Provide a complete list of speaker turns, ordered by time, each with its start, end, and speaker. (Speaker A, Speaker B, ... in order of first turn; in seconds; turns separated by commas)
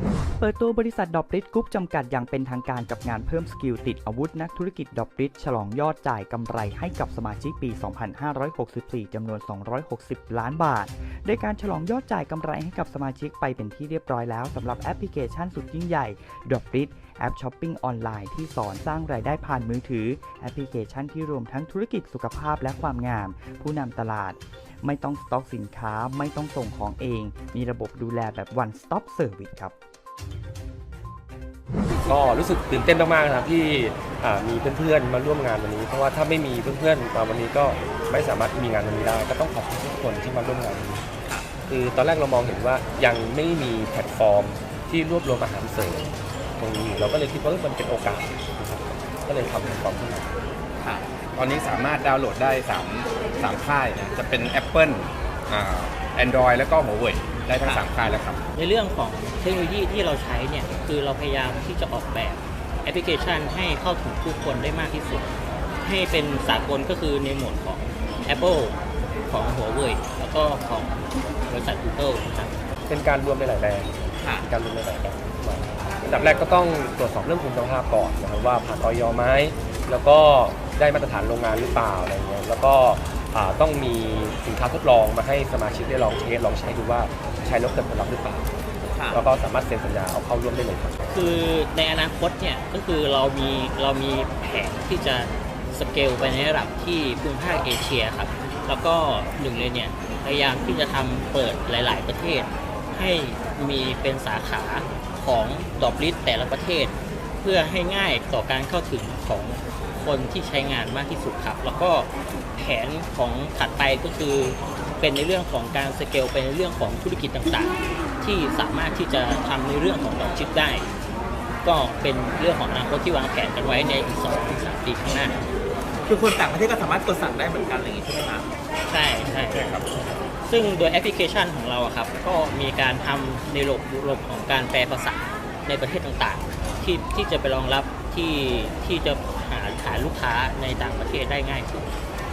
Speaker A: 0.4-29.7, Speaker B: 32.0-41.0, Speaker B: 41.7-50.3, Speaker C: 51.3-58.4, Speaker D: 58.5-72.5, Speaker B: 72.9-88.5, Speaker E: 74.2-74.4, Speaker E: 88.9-89.2, Speaker B: 89.1-91.0, Speaker D: 91.1-120.9, Speaker D: 121.6-125.4, Speaker E: 126.1-128.5, Speaker D: 128.9-141.9, Speaker C: 129.6-129.8